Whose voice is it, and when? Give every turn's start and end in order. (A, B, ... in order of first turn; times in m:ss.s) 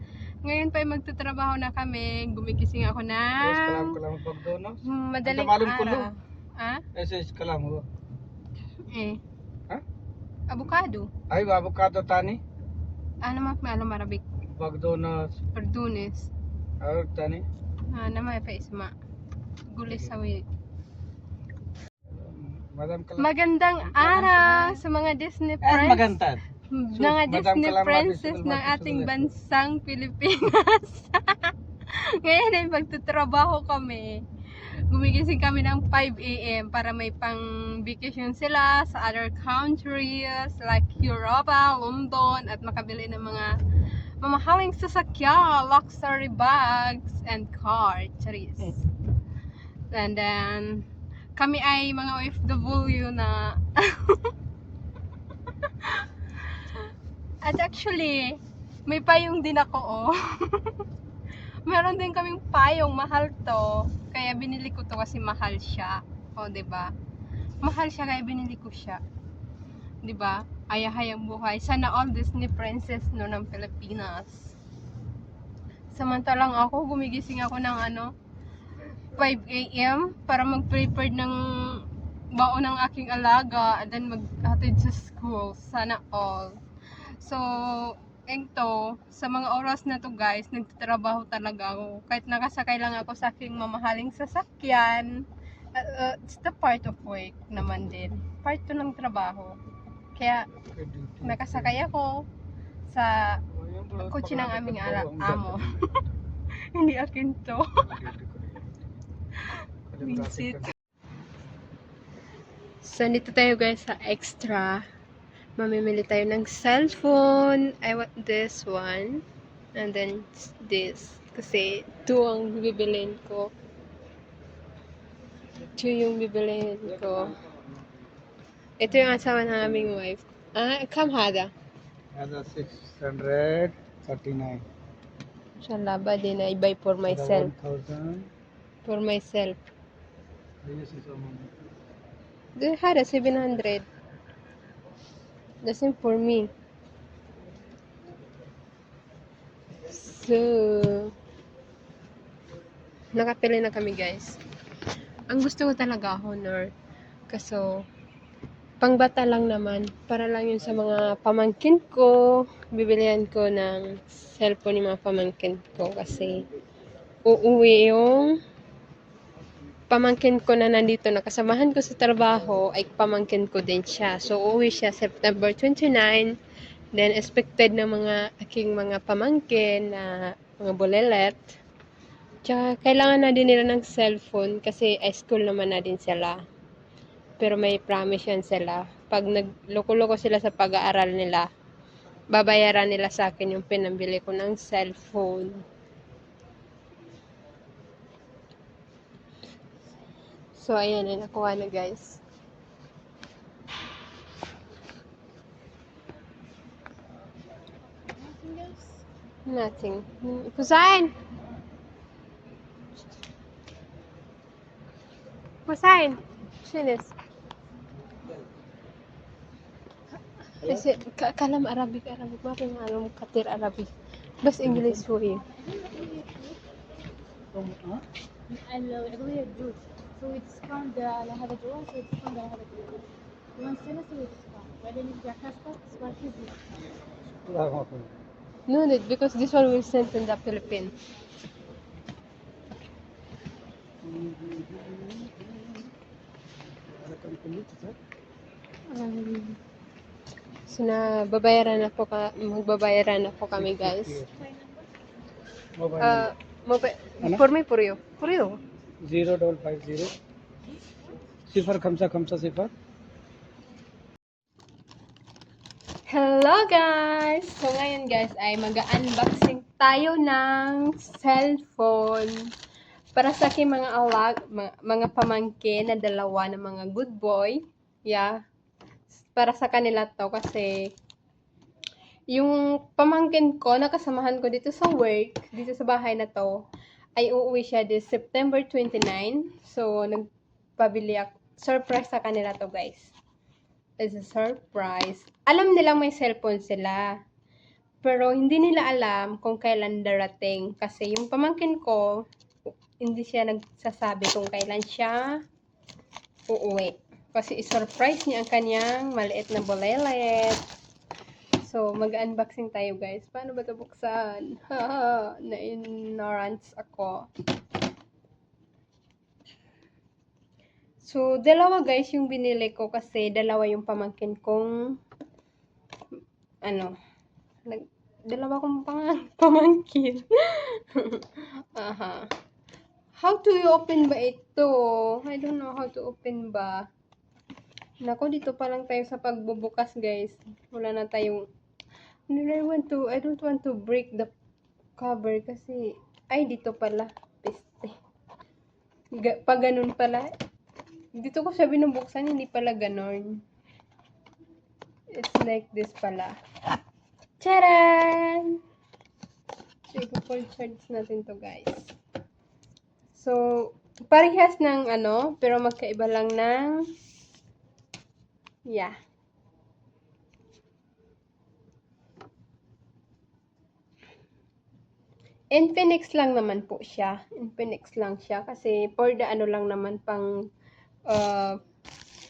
0:00.4-0:04.0 A
0:03.4-0:06.1 B
0:04.8-0:06.8 A
0:06.9-0:07.8 B
0:08.9-0:09.2 A
0:10.5-0:11.1 A
0:11.3-0:12.4 B
0:13.2-0:14.2 A
0:14.5-0:15.4 B
0:15.5-0:16.3 A
0:16.8-0:17.4 B
0:17.9-0:18.9 A
0:19.7-0:20.4 A
0:22.1-0:23.3 B
0:23.2-0:26.2 A
0:24.0-0:24.7 B
0:25.6-0:29.3 B
0:26.7-0:43.6 A
0:44.2-0:48.8 A
0:49.9-0:54.3 A
0:55.7-0:56.8 A
0:57.4-1:00.8 A
1:01.6-1:06.9 A
1:07.6-1:09.0 A
1:10.0-1:14.5 A
1:15.9-1:18.1 A
1:19.1-1:26.6 A
1:27.1-1:39.6 A
1:40.2-1:40.5 A
1:40.6-1:41.8 B
1:41.2-1:42.2 A
1:42.9-1:43.4 A
1:43.5-1:46.0 B
1:44.0-1:46.0 A
1:46.6-1:47.9 A
1:47.8-1:48.7 B
1:49.4-1:50.6 A
1:49.9-1:50.6 B
1:52.8-1:54.8 A
1:55.6-1:59.2 A
1:59.7-2:03.5 A
2:05.8-2:07.3 A
2:08.8-2:11.5 A
2:12.1-2:14.6 B
2:15.6-2:17.5 A
2:17.1-2:18.3 B
2:18.8-2:19.6 A
2:20.6-2:21.5 B
2:22.6-2:23.8 A
2:25.6-2:26.5 A
2:29.9-2:31.1 A
2:33.1-2:34.4 A
2:35.3-2:36.7 A
2:37.3-2:37.8 A
2:38.8-2:46.4 A
2:47.2-2:48.4 A
2:49.9-2:56.4 A
2:56.9-3:01.5 A
3:02.4-3:06.4 A
3:07.4-3:11.5 A
3:12.3-3:15.6 A
3:20.5-3:22.2 A
3:28.1-3:29.0 C
3:29.4-3:31.1 A
3:35.6-3:37.1 A
3:40.6-3:45.4 A
3:44.6-3:45.1 B
3:45.6-3:46.6 C
3:47.5-3:48.0 B
3:48.5-3:56.6 C
3:57.4-3:58.1 B
3:58.7-4:00.9 A
4:04.0-4:05.9 B
4:07.0-4:08.0 B
4:08.9-4:09.6 A
4:10.7-4:14.2 A
4:13.5-4:14.4 B
4:15.8-4:16.3 B
4:16.0-4:18.6 A
4:17.2-4:17.4 B
4:19.0-4:20.1 B
4:21.5-4:22.7 B
4:26.1-4:32.5 A
4:33.1-4:38.3 A
4:39.1-4:40.9 A
4:42.3-4:46.6 A
4:47.2-4:50.2 A
4:50.8-4:53.1 A
4:54.0-4:57.1 A
4:58.0-5:02.2 A
5:03.0-5:05.4 A
5:06.5-5:10.6 A
5:11.6-5:17.3 A
5:21.0-5:24.7 A
5:26.6-5:26.9 A
5:27.6-5:32.3 A
5:33.2-5:36.8 A
5:38.0-5:41.4 A
5:42.3-5:44.3 A
5:45.0-5:47.9 A
5:49.2-5:50.3 A
5:51.2-5:53.4 A
5:55.1-5:56.3 A
5:57.4-5:58.6 A
5:59.9-6:01.9 A
6:03.1-6:06.8 A
6:08.7-6:08.9 A
6:15.5-6:20.3 A
6:21.1-6:21.6 A